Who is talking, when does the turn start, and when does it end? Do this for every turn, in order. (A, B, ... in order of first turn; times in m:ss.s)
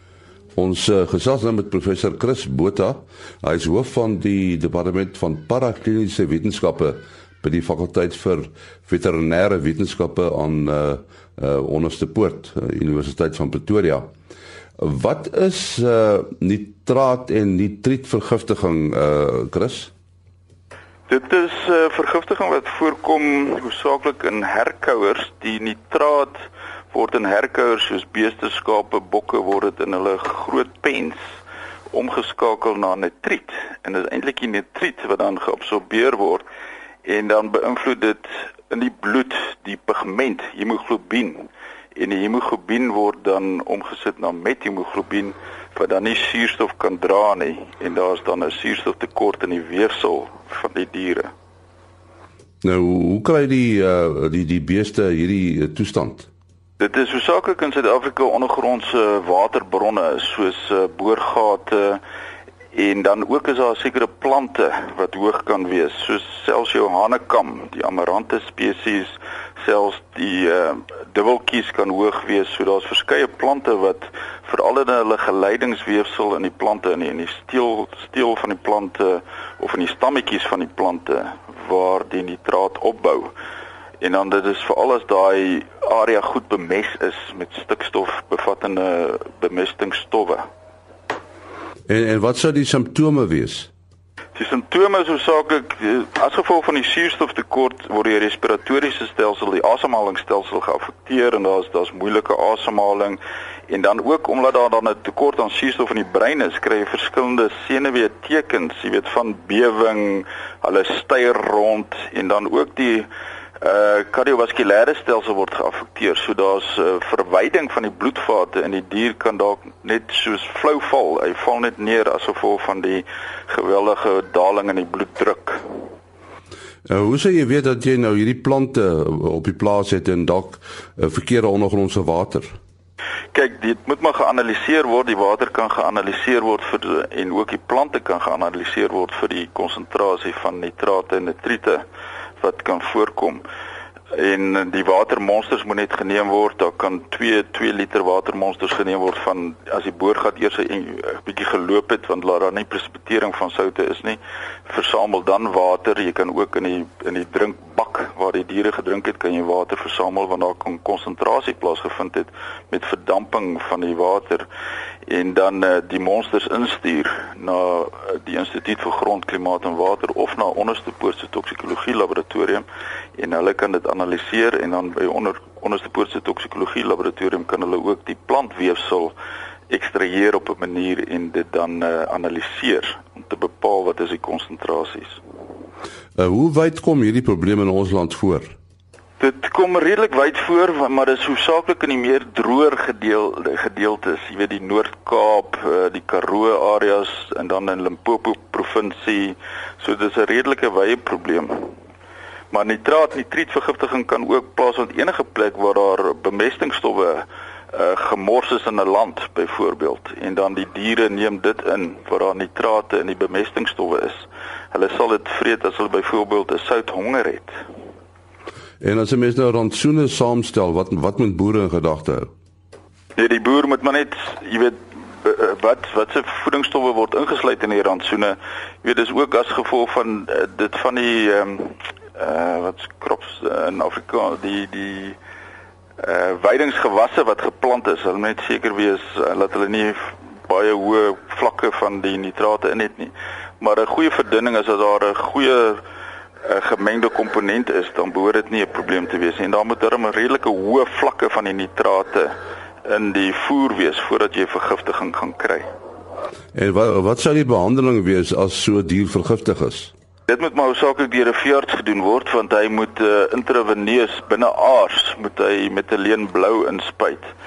0:00.6-0:14.1 A
0:14.8-0:19.9 A
0:21.1-0:26.4 B
0:26.9-0:31.2 B
0:31.9-0:36.4 B
0:37.0-0:51.3 B
0:52.6-0:56.3 A
0:56.8-1:02.0 B
1:02.7-1:23.3 B
1:24.0-1:30.4 B
1:31.9-1:33.7 A
1:34.3-1:53.1 B
1:53.6-2:05.6 B
2:06.8-2:12.5 A
2:13.3-2:21.8 B
2:22.4-2:23.4 B
2:24.1-2:44.4 B
2:45.1-2:52.6 B
2:53.2-2:59.1 B
2:59.7-3:05.2 B
3:06.2-3:08.5 A
3:09.2-3:21.7 B
3:22.5-3:37.6 B
3:38.8-3:42.3 A
3:43.2-3:55.2 B
3:56.0-4:05.8 B
4:06.4-4:12.3 B
4:12.8-4:15.6 B
4:16.5-4:19.9 A
4:20.3-4:27.3 B